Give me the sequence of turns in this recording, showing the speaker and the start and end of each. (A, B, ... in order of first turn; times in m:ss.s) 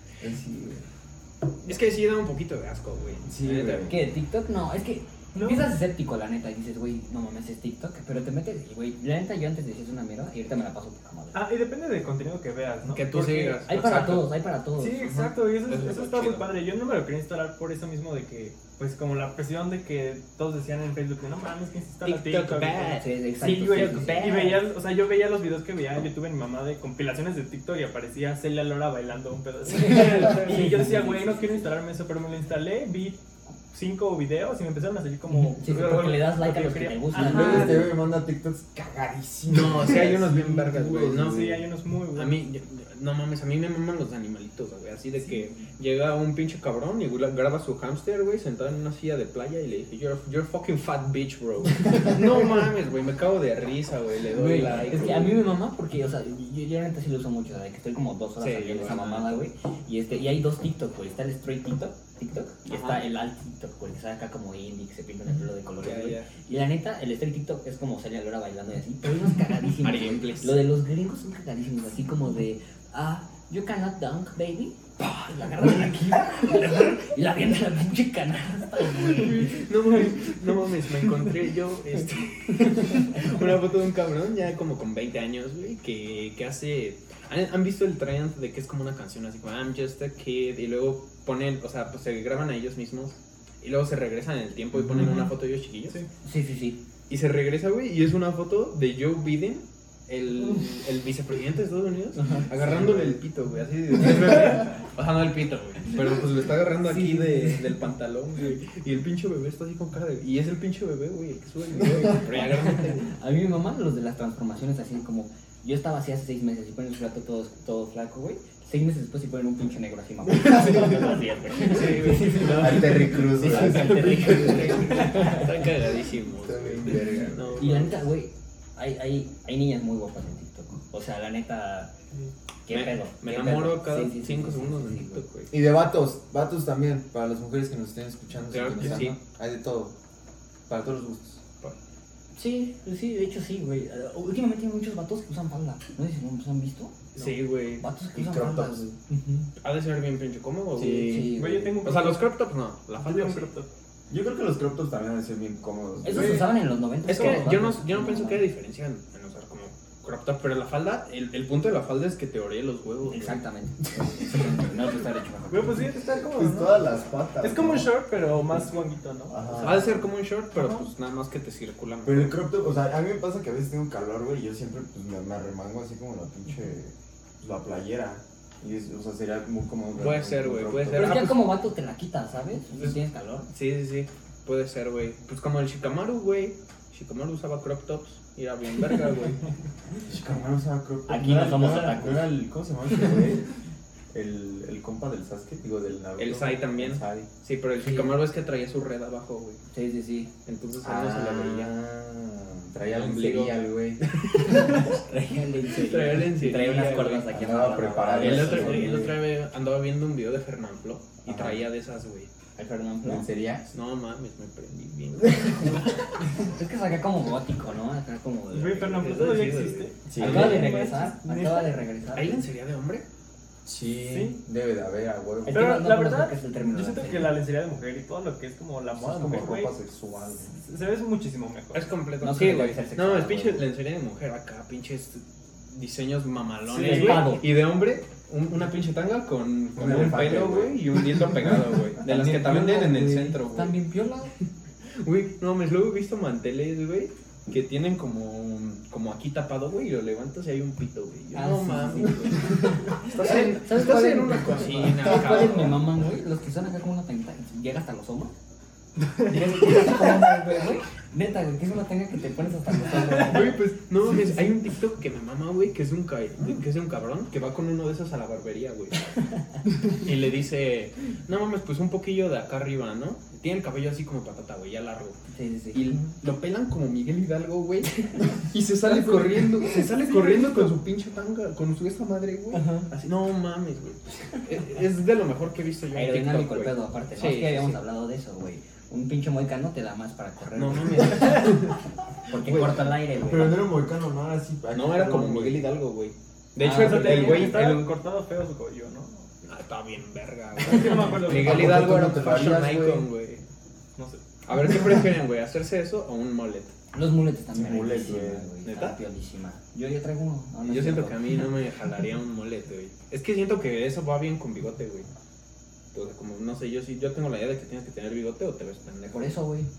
0:00.2-0:00.8 A
0:01.6-0:03.9 B
0:03.2-0:04.0 A
0:03.9-0:11.4 C
0:05.3-0:05.7 D
0:11.3-0:14.0 D
0:12.9-0:14.4 B
0:13.6-0:15.1 C
0:14.8-0:37.9 D
0:15.0-0:16.5 B
0:22.0-0:24.3 B
0:22.9-0:24.7 C
0:29.6-0:31.7 C
0:29.7-0:30.9 B
0:35.3-0:37.9 C
0:37.1-0:41.6 A
0:39.5-0:55.5 B
0:41.2-0:42.4 D
0:54.3-1:19.7 C
0:58.4-0:59.5 B
1:02.7-1:03.0 B
1:05.8-1:06.3 B
1:09.8-1:10.6 B
1:15.6-1:16.8 B
1:19.1-1:36.0 B
1:34.8-1:35.1 A
1:36.2-1:36.8 C
1:37.1-1:53.1 B
1:42.1-1:42.5 C
1:42.5-1:43.2 A
1:46.8-1:47.8 C
1:52.1-2:05.7 C
2:00.5-2:00.8 A
2:01.5-2:08.0 B
2:02.3-2:04.3 A
2:06.4-2:07.9 A
2:07.6-2:11.9 C
2:12.6-2:15.2 C
2:12.7-2:15.5 B
2:15.5-2:19.9 A
2:18.5-2:19.2 B
2:20.7-2:21.4 A
2:22.4-2:27.0 C
2:27.1-2:27.8 B
2:27.8-2:29.4 C
2:28.1-2:28.9 A
2:29.6-2:31.3 B
2:30.8-2:31.4 A
2:31.0-2:31.8 C
2:31.3-2:32.3 D
2:31.8-2:33.5 B
2:33.0-2:33.7 D
2:34.1-2:36.5 A
2:36.0-2:38.4 C
2:36.1-2:36.4 D
2:37.0-2:43.4 B
2:37.1-2:37.5 D
2:43.1-2:45.9 C
2:45.5-2:50.0 D
2:46.2-2:48.0 A
2:49.3-2:50.1 A
2:49.6-2:52.4 B
2:50.5-2:50.9 D
2:52.0-3:01.3 A
3:00.0-3:01.6 B
3:00.9-3:03.5 C
3:03.5-3:09.4 B
3:10.0-3:13.5 A
3:11.1-3:12.4 C
3:14.1-3:17.3 A
3:16.2-3:19.6 B
3:17.8-3:18.1 C
3:19.7-3:20.3 C
3:20.4-3:21.7 B
3:20.8-3:24.6 A
3:22.9-3:24.9 B
3:24.4-3:29.1 C
3:25.7-3:27.3 B
3:27.3-3:29.2 A
3:28.1-3:32.3 B
3:31.2-3:31.6 A
3:32.6-3:33.2 C
3:33.0-3:33.7 A
3:33.7-3:35.9 B
3:35.4-3:35.8 C
3:36.5-3:39.4 C
3:38.5-3:41.8 D
3:39.0-3:40.8 B
3:40.1-3:40.8 A
3:40.2-3:42.4 C
3:42.1-3:43.0 B
3:43.6-3:45.8 A
3:44.0-3:44.4 D
3:45.4-3:47.4 C
3:45.5-3:49.7 D
3:48.9-3:50.5 A
3:50.5-3:51.9 D
3:51.7-4:03.8 B
3:52.2-3:53.6 C
3:56.6-3:57.3 D
3:56.8-3:57.4 C
3:59.8-4:03.3 A
4:02.0-4:04.3 C
4:05.0-4:15.8 B
4:11.3-4:18.3 C
4:19.3-4:23.6 C
4:23.2-4:29.0 B
4:29.9-4:35.2 B
4:35.3-4:35.8 C
4:35.7-4:47.8 B
4:40.0-4:40.7 D
4:42.5-4:42.8 D
4:45.9-4:51.6 C
4:50.5-4:51.8 B
4:52.3-4:53.6 C
4:52.4-4:55.7 A
4:54.7-4:57.9 B
4:56.6-4:57.7 C
4:56.7-4:59.3 D
4:59.4-5:03.4 B
5:00.6-5:02.2 D
5:01.3-5:03.1 A
5:04.0-5:04.2 D
5:04.4-5:06.7 B
5:06.9-5:11.3 C
5:07.5-5:08.5 A
5:08.6-5:09.0 B
5:10.6-5:15.1 B
5:15.9-5:19.3 B
5:19.1-5:19.7 C